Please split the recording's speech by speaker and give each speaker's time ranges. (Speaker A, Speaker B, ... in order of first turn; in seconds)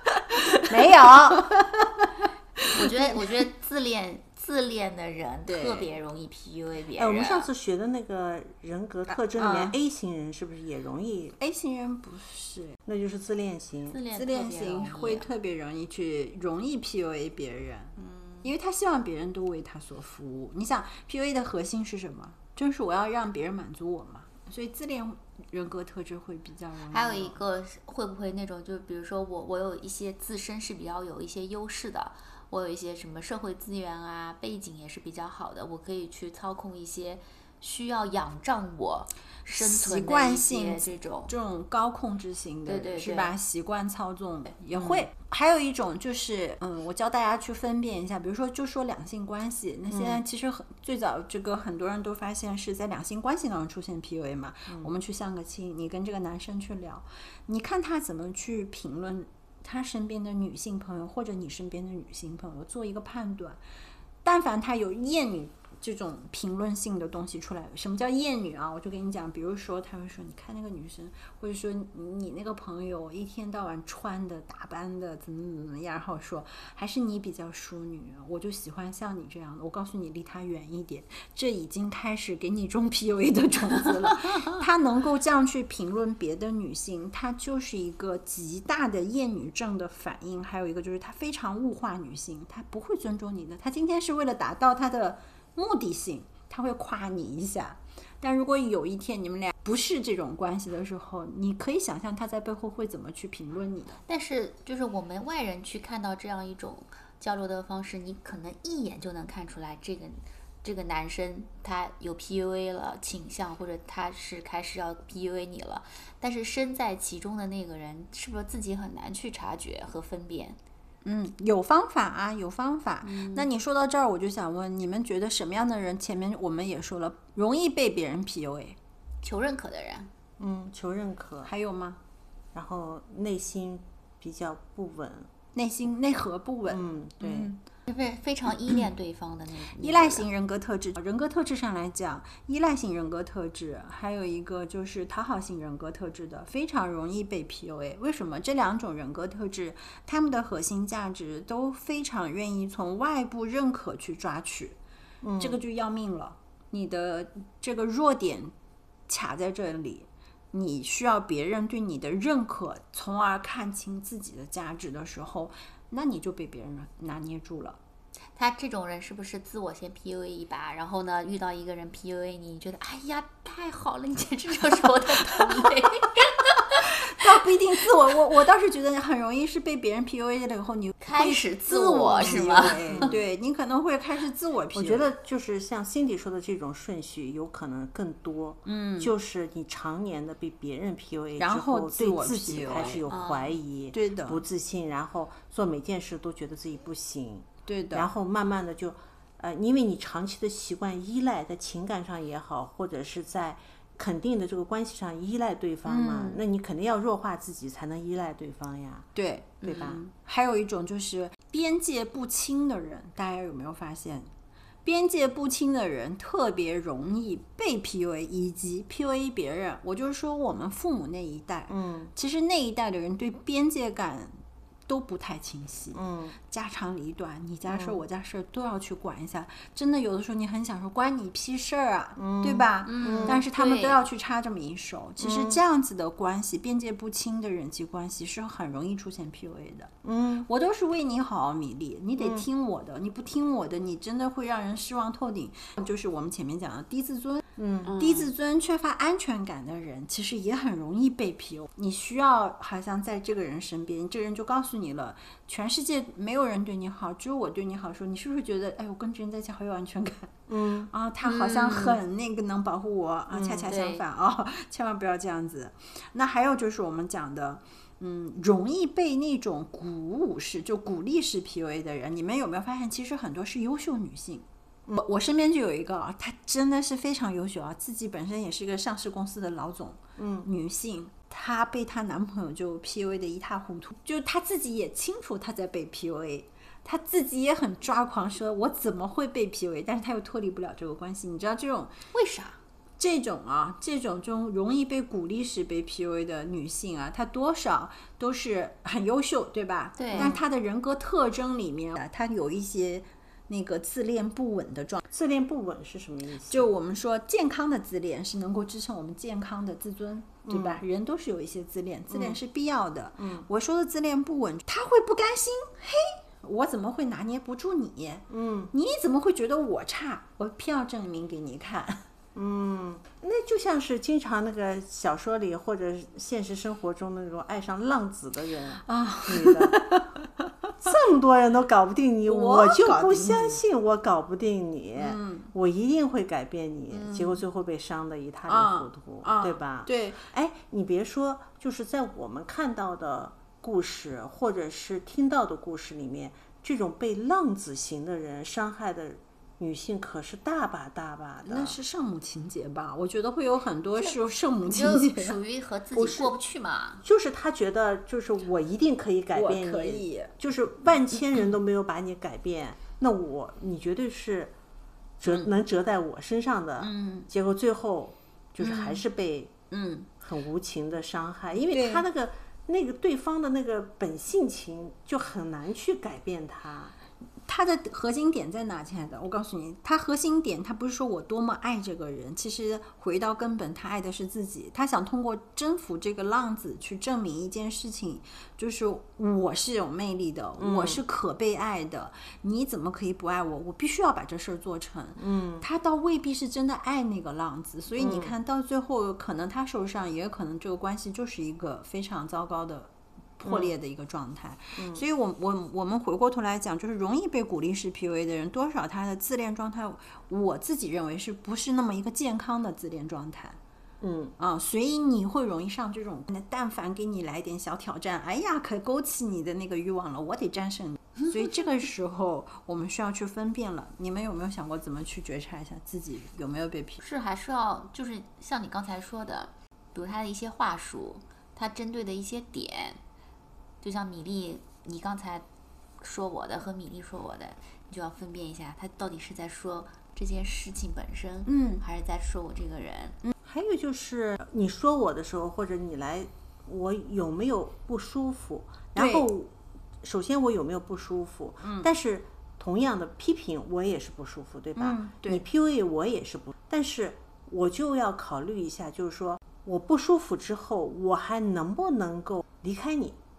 Speaker A: 0.1-2.0, 2.6-3.1, 5.5-5.9, 9.3-9.7, 11.4-12.8, 14.1-27.4, 39.5-63.6, 64.2-104.0, 121.0-128.8, 131.4-132.0, 135.5-137.6, 139.8-154.8, 155.4-158.5, 159.1-167.8, 176.8-185.1, 188.6-189.1, 191.4-193.1, 193.9-194.4, 197.7-198.1, 205.9-206.4, 209.1-214.3, 214.8-224.4, 224.9-239.9, 240.4-260.4, 260.9-274.4, 275.0-291.9, 293.0-305.0, 306.5-322.0, 328.8-330.5, 332.2-333.6, 335.0-335.5, 336.9-337.4, 338.5-340.2, 351.4-355.4, 356.0-356.3, 359.3-360.3, 366.8-367.3, 368.6-369.0, 369.7-370.1, 371.7-372.0, 377.5-413.6, 414.4-427.0, 441.4-441.8, 448.9-449.3, 451.6-451.9, 454.8-455.4
Speaker B: 0.7-1.5, 6.9-11.4, 12.9-14.0, 49.9-50.2, 130.4-131.5, 132.5-135.3, 136.7-137.5, 155.2-155.6, 182.2-183.2, 184.7-209.1, 209.6-210.0, 221.7-222.1, 225.9-226.3, 227.7-228.0, 232.2-233.4, 235.2-235.6, 240.0-240.5, 242.2-242.4, 247.6-247.9, 260.5-260.9, 263.3-263.7, 280.2-280.5, 300.1-300.4, 305.1-306.7, 310.4-310.8, 312.1-312.4, 313.2-313.4, 318.3-318.7, 322.3-329.8, 330.8-351.8, 357.0-364.5, 365.2-369.5, 370.2-376.9, 390.6-391.0, 395.2-395.6, 398.0-398.3, 403.4-403.7, 404.8-405.0, 414.0-414.3, 443.4-463.2
Speaker C: 2.7-7.5, 13.9-15.3, 18.0-18.4, 26.9-41.3, 42.6-43.3, 104.0-120.6, 123.0-123.5, 129.2-130.1, 137.9-140.3, 168.3-177.2, 181.0-183.1, 193.1-193.6, 232.9-234.0, 247.8-248.3, 261.2-262.0, 263.7-264.0, 292.1-292.6, 300.0-300.4, 354.0-357.0, 427.0-433.0, 433.8-435.4, 436.0-443.2